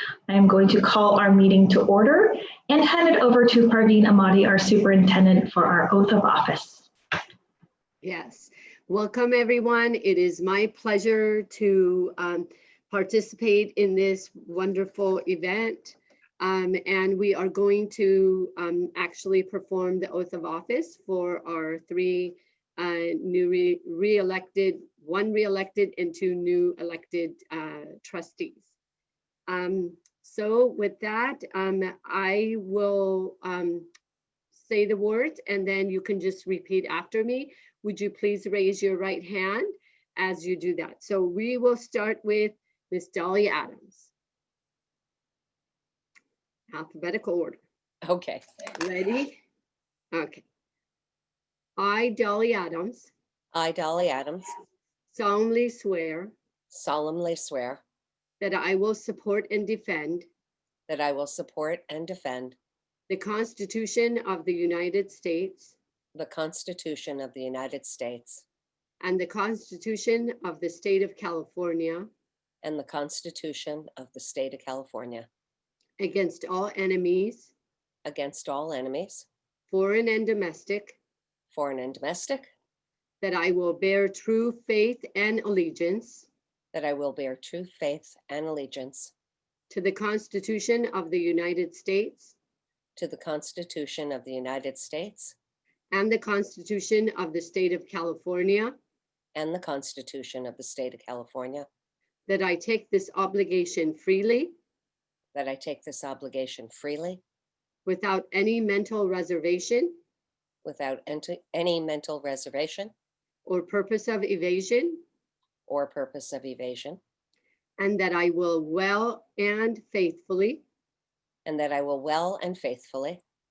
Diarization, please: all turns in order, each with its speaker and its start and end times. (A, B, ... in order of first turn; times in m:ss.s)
0:00.3-0:06.9 A
0:08.0-0:28.7 B
0:29.5-0:33.9 B
0:34.5-0:44.1 B
0:46.7-0:47.6 B
0:48.0-0:48.4 C
0:48.8-0:49.4 B
0:50.1-0:50.4 B
0:51.8-0:53.1 B
0:53.5-0:54.6 C
0:55.1-0:56.3 B
0:56.7-0:57.8 C
0:58.4-1:00.2 B
1:00.9-1:02.6 C
1:03.1-1:05.8 B
1:06.1-1:08.4 C
1:09.0-1:12.1 B
1:12.6-1:15.3 C
1:16.0-1:17.5 B
1:18.0-1:19.3 C
1:19.7-1:21.0 B
1:21.5-1:22.5 C
1:23.2-1:26.3 B
1:26.7-1:29.1 C
1:29.7-1:32.4 B
1:33.0-1:35.4 C
1:35.9-1:38.8 B
1:39.3-1:41.7 C
1:42.3-1:44.5 B
1:45.3-1:47.2 C
1:47.9-1:50.0 B
1:50.6-1:52.9 C
1:53.4-1:55.0 B
1:55.7-1:57.0 C
1:57.8-2:00.6 B
2:01.4-2:03.2 C